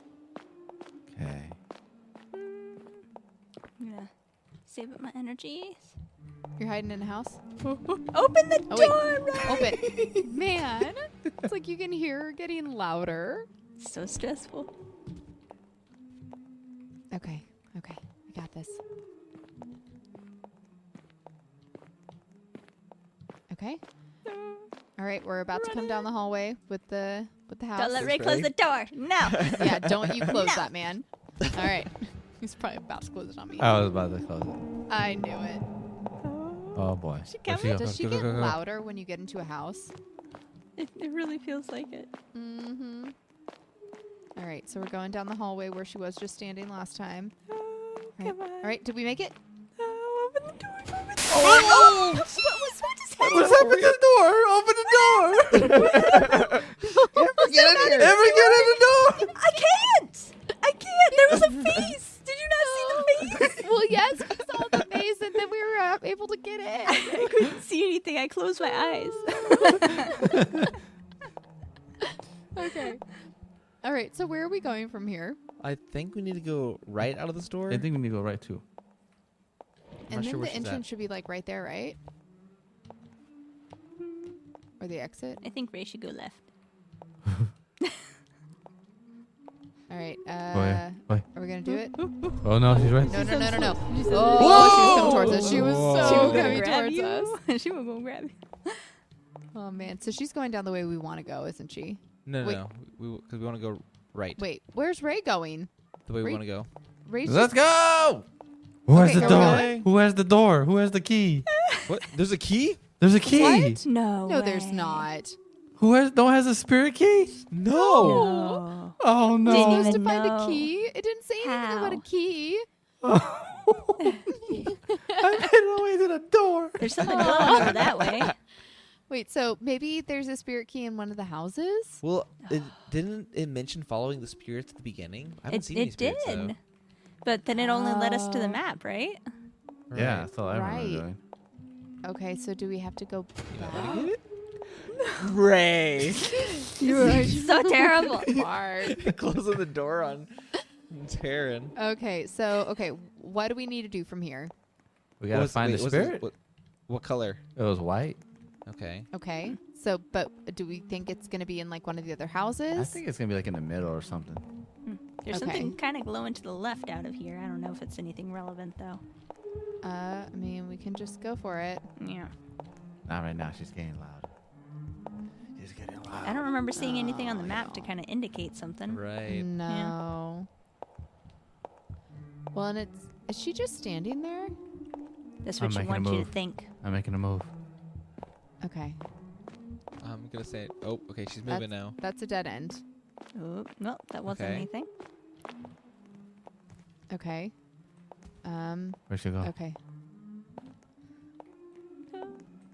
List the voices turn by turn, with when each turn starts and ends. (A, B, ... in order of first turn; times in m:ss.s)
0:01.1-0:01.6 A
0:02.4-0:02.9 B
0:03.8-0:04.1 B
0:04.7-0:05.9 B
0:06.6-0:07.4 C
0:07.6-0:10.1 B
0:08.7-0:13.5 C
0:13.8-0:14.7 B
0:17.1-0:18.8 C
0:23.5-0:23.8 C
0:24.3-0:24.7 B
0:25.0-0:28.1 C
0:25.6-0:26.0 B
0:27.8-0:30.7 B
0:28.0-0:28.5 D
0:29.2-0:30.4 D
0:29.5-0:33.8 C
0:33.6-0:34.6 A
0:34.9-0:35.6 C
0:36.2-0:37.8 B
0:36.7-0:37.9 A
0:37.8-0:38.6 D
0:37.8-0:39.9 C
0:40.8-0:42.1 B
0:42.3-0:43.1 C
0:44.4-0:47.3 C
0:47.5-0:48.8 B
0:48.2-0:49.4 C
0:49.8-0:53.7 B
0:51.3-0:52.3 A
0:51.3-0:52.2 D
0:53.2-0:54.0 D
0:53.3-0:56.6 A
0:54.8-0:56.6 B
0:55.5-0:58.2 D
0:56.8-0:58.1 C
0:57.2-1:03.7 B
0:57.8-0:59.4 A
1:01.3-1:01.9 D
1:02.6-1:07.4 C
1:06.9-1:10.3 B
1:09.0-1:10.3 C
1:10.2-1:10.7 A
1:12.5-1:13.0 C
1:13.8-1:15.4 C
1:15.6-1:17.8 D
1:17.7-1:18.6 A
1:20.1-1:20.8 D
1:20.1-1:22.0 C
1:24.8-1:25.4 C
1:25.4-1:26.4 B
1:29.9-1:32.0 C
1:30.5-1:31.2 A
1:31.7-1:38.9 B
1:32.4-1:33.4 A
1:33.1-1:37.3 C
1:34.1-1:36.7 D
1:34.4-1:35.1 A
1:39.5-1:42.6 C
1:42.2-1:44.4 D
1:44.4-1:45.7 C
1:46.1-1:46.7 D
1:47.0-1:47.6 C
1:47.2-1:48.2 A
1:48.8-1:51.4 A
1:48.9-1:49.8 C
1:48.9-1:49.9 D
1:51.5-1:52.0 B
1:51.9-1:52.8 D
1:53.0-1:53.8 A
1:53.2-1:55.4 C
1:53.4-1:55.1 B
1:55.8-1:57.4 A
1:57.5-1:58.3 D
1:57.7-1:58.6 C
1:58.0-2:00.7 B
1:59.0-2:00.0 A
1:59.4-2:02.6 C
2:01.4-2:02.0 B
2:03.0-2:06.9 A
2:04.3-2:05.3 C
2:06.8-2:08.4 B
2:07.0-2:08.3 D
2:07.0-2:07.8 C
2:09.1-2:12.0 C
2:12.0-2:16.5 D
2:15.5-2:16.6 B
2:17.2-2:19.2 B
2:17.5-2:18.6 C
2:19.9-2:20.3 D
2:19.9-2:21.2 A
2:20.4-2:21.0 C
2:22.0-2:24.1 C
2:23.5-2:24.2 D
2:25.1-2:26.4 D
2:26.6-2:28.3 B
2:26.7-2:29.1 C
2:27.0-2:27.3 D
2:28.2-2:30.3 D
2:30.9-2:31.7 D
2:31.8-2:34.5 C
2:35.2-2:36.3 A
2:35.3-2:36.3 D
2:36.9-2:37.4 D
2:37.6-2:38.2 A
2:38.6-2:39.1 D
2:39.1-2:43.0 C
2:42.7-2:44.4 A
2:44.8-2:49.0 B
2:45.3-2:45.8 C
2:49.8-2:51.9 C
2:52.0-2:52.3 B
2:53.0-2:54.3 A
2:55.5-2:56.5 A
2:56.2-2:59.0 B
2:56.7-2:57.9 C
2:58.9-2:59.5 D
2:59.3-3:00.5 C
2:59.7-2:59.9 B
3:02.5-3:04.5 C
3:05.4-3:06.7 B
3:05.6-3:07.5 A
3:08.6-3:09.0 C
3:10.0-3:12.0 D
3:11.4-3:12.8 C
3:13.3-3:14.9 B
3:14.3-3:14.7 D
3:17.1-3:17.5 C
3:18.4-3:19.8 C
3:19.1-3:19.5 A
3:22.1-3:22.4 B